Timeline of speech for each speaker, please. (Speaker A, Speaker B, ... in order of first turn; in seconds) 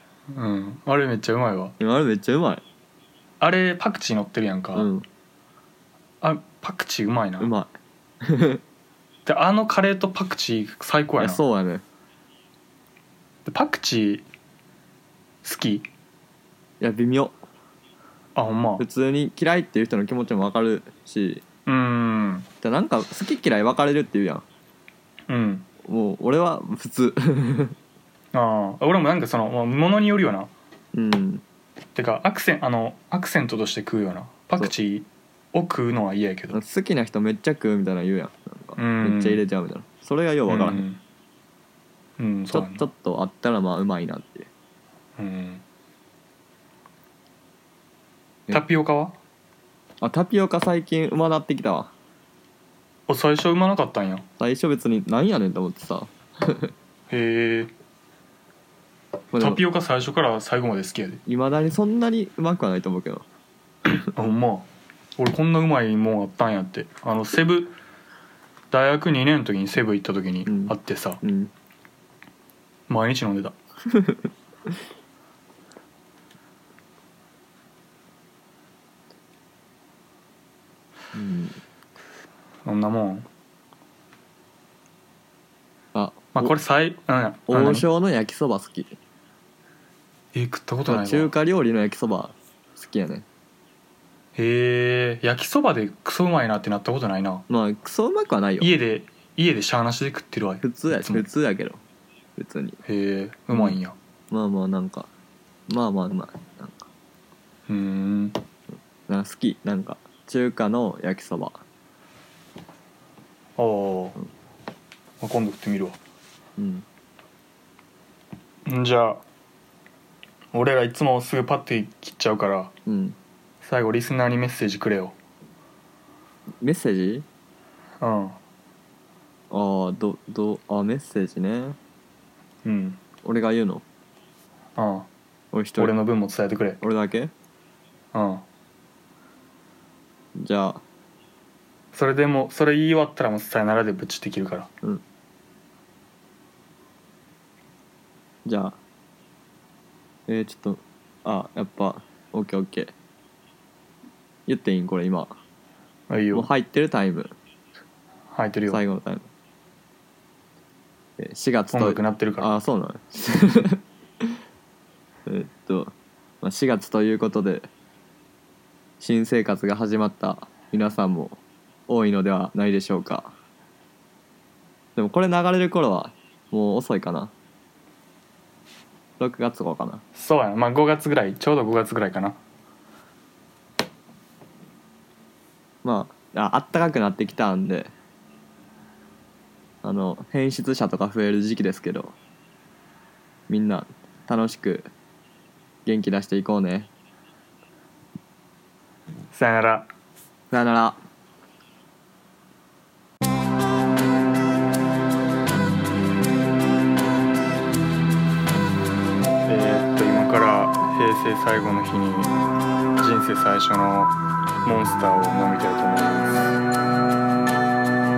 Speaker A: 0.3-1.7, 3.4-4.9, 6.2-7.5, 9.2-11.4, 13.5-14.2, 15.4-15.9, 18.3-18.8, 21.6-22.5, 25.3-25.7, 28.3-30.5, 31.9-36.6, 38.8-39.4, 40.5-41.0, 42.2-42.9, 45.2-45.6, 48.5-49.2, 53.1-54.2, 57.1-57.7, 59.4-61.2, 64.1-67.8, 68.7-71.2, 72.9-73.5, 82.6-83.3, 86.3-87.9, 90.3-91.3, 94.3-97.4, 98.6-101.3, 102.8-104.0, 107.7-108.4, 113.6-114.2, 115.2-116.0, 118.7-119.2, 120.5-122.7, 123.6-125.2, 128.0-128.4, 132.6-133.0, 134.8-135.1, 135.8-136.8, 138.1-138.4, 141.9-144.7, 156.1-156.5, 158.3-158.8, 161.7-162.6, 180.1-182.4, 199.3-199.9, 209.4-212.3, 213.0-216.5
Speaker B: 1.8-2.6, 4.8-5.0, 7.4-7.7, 8.2-8.6, 11.2-11.8, 16.8-17.4, 18.8-21.4, 22.6-24.4, 25.9-27.8, 30.9-31.4, 36.5-40.8, 42.5-44.5, 50.0-51.9, 54.4-56.7, 59.3-59.6, 61.2-63.2, 70.5-71.5, 81.1-81.6, 85.9-86.5, 87.5-89.0, 90.8-93.2, 97.5-98.7, 100.6-101.8, 102.4-102.8, 103.5-103.8, 104.3-105.1, 105.7-106.9, 109.1-111.6, 116.6-116.8, 122.8-123.2, 126.6-127.2, 129.5-131.8, 133.2-133.8, 135.5-136.0, 136.8-137.3, 140.4-140.8, 148.4-148.8, 150.3-152.9, 154.5-155.4, 156.3-157.3, 158.7-159.3, 161.2-163.8, 165.2-167.7, 169.0-173.3, 174.9-177.3, 179.2-180.0, 185.8-187.9, 189.8-192.2, 193.5-194.9, 195.8-196.9, 200.5-201.0